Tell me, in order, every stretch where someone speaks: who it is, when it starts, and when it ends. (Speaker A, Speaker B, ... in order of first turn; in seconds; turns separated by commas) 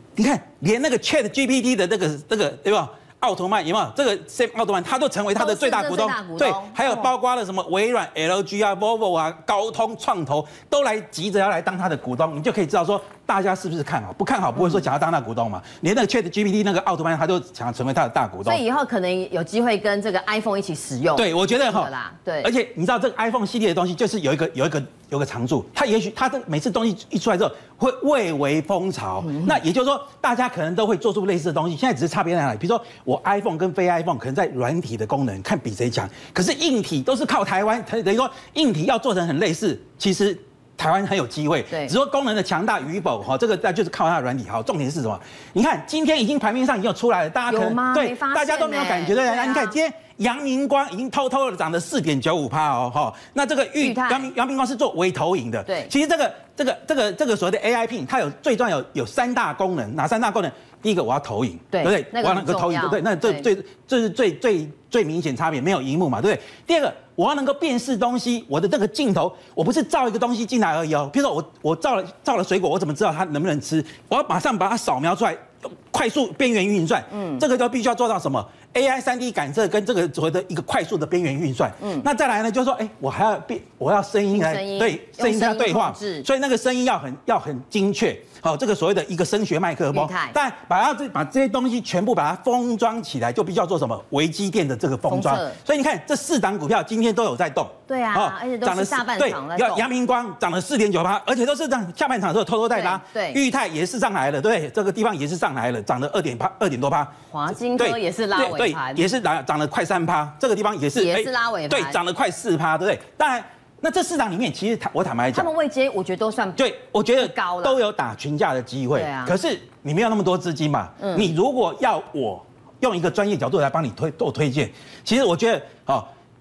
Speaker A: 0.1-18.6, Speaker B: 5.4-7.1, Speaker B: 18.4-22.5, Speaker A: 21.1-107.1, Speaker B: 29.3-29.5, Speaker B: 47.5-49.8, Speaker B: 53.8-54.3, Speaker B: 61.7-63.5, Speaker B: 77.1-77.4, Speaker B: 84.3-86.2, Speaker B: 89.9-90.3, Speaker B: 95.1-95.5, Speaker B: 97.9-99.8, Speaker B: 102.7-103.4, Speaker B: 107.3-109.0, Speaker A: 107.8-115.5, Speaker B: 110.9-112.0, Speaker B: 115.3-116.6, Speaker A: 116.6-126.1, Speaker B: 117.2-117.8, Speaker B: 118.9-119.3, Speaker B: 121.0-121.3